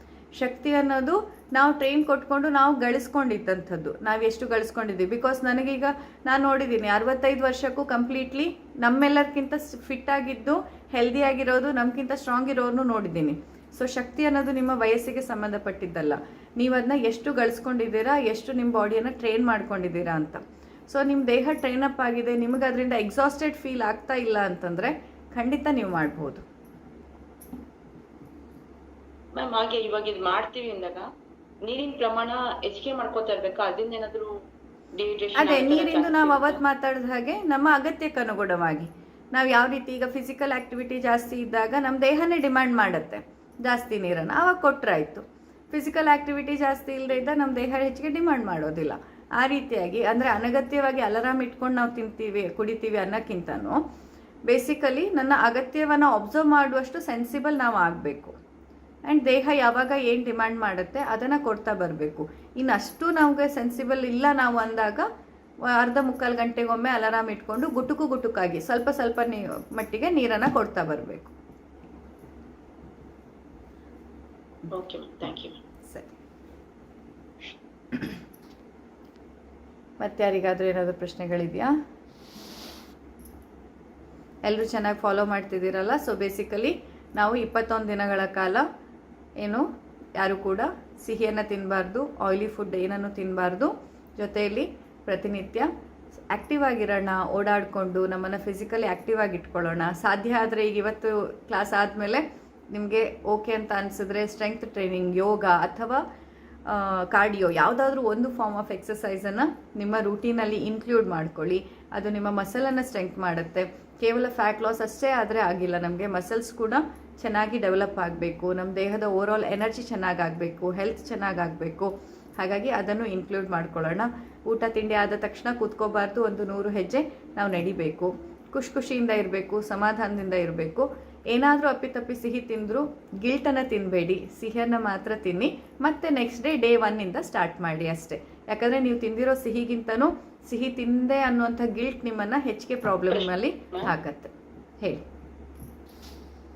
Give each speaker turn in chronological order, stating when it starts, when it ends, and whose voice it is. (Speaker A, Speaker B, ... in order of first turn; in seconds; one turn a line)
Speaker A: 0.4-26.4
Speaker B: 29.4-31.1
Speaker B: 31.6-34.3
Speaker B: 35.0-36.6
Speaker A: 35.4-53.8
Speaker A: 54.5-58.4
Speaker A: 59.1-65.1
Speaker A: 65.7-71.3
Speaker B: 74.7-75.6
Speaker A: 75.9-76.2
Speaker A: 80.0-81.7
Speaker A: 84.5-88.7
Speaker A: 90.2-95.7
Speaker A: 96.3-106.0
Speaker A: 106.7-145.0
Speaker B: 143.1-143.9